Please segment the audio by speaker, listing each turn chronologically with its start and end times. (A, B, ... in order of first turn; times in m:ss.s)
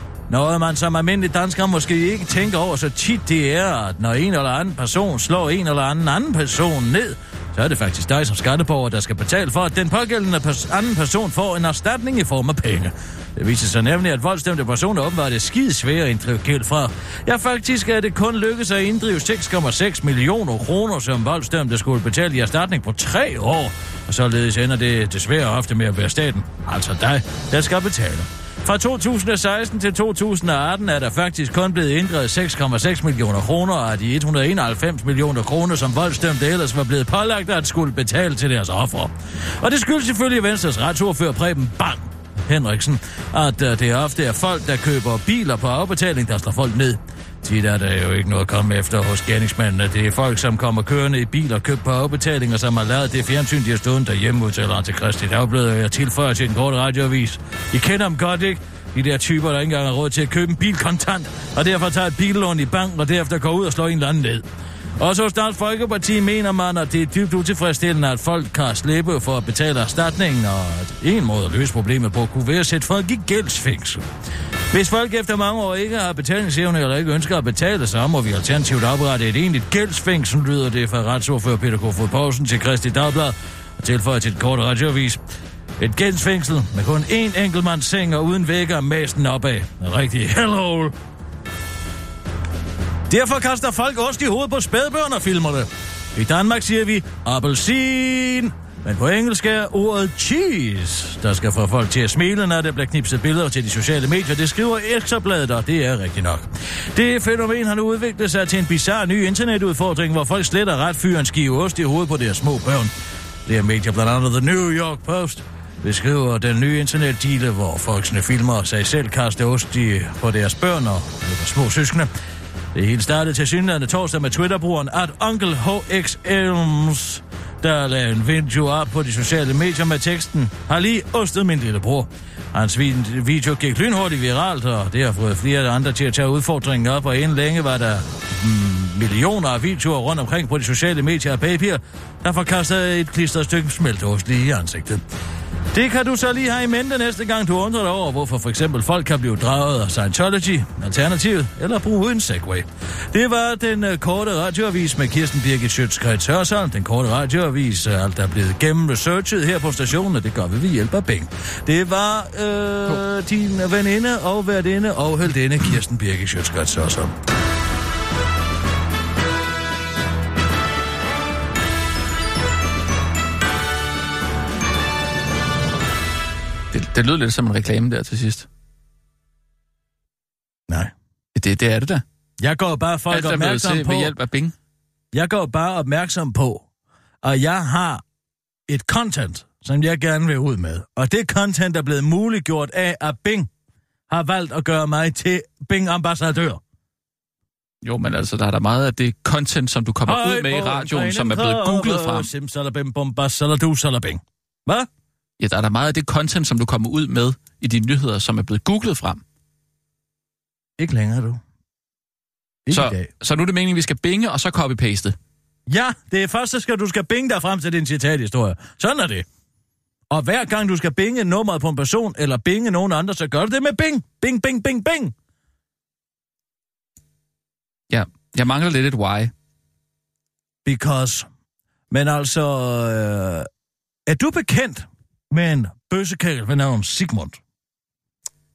0:00.3-1:04.4 A
1:05.0-1:14.1 A
1:14.7-1:25.2 A
1:25.8-1:31.0 A
1:33.1-1:52.9 A
1:53.5-2:02.1 A
2:02.7-2:25.0 A
2:25.7-2:47.2 A
2:56.7-2:58.5 B
3:00.7-3:00.9 A
3:01.4-3:02.0 B
3:02.4-3:04.2 A
3:03.1-3:04.5 B
3:05.1-3:06.7 A
3:07.2-3:08.0 A
3:08.7-3:13.5 A
3:14.1-3:16.6 A
3:17.8-3:22.3 B
3:20.1-3:24.9 A
3:25.4-3:29.2 B
3:30.8-3:31.4 A
3:32.7-3:33.1 A
3:32.7-3:35.2 B
3:35.7-3:39.2 A
3:40.1-3:45.1 A
3:47.9-3:49.3 B
3:50.6-3:51.3 A
3:51.9-3:53.5 A
3:54.1-3:57.4 A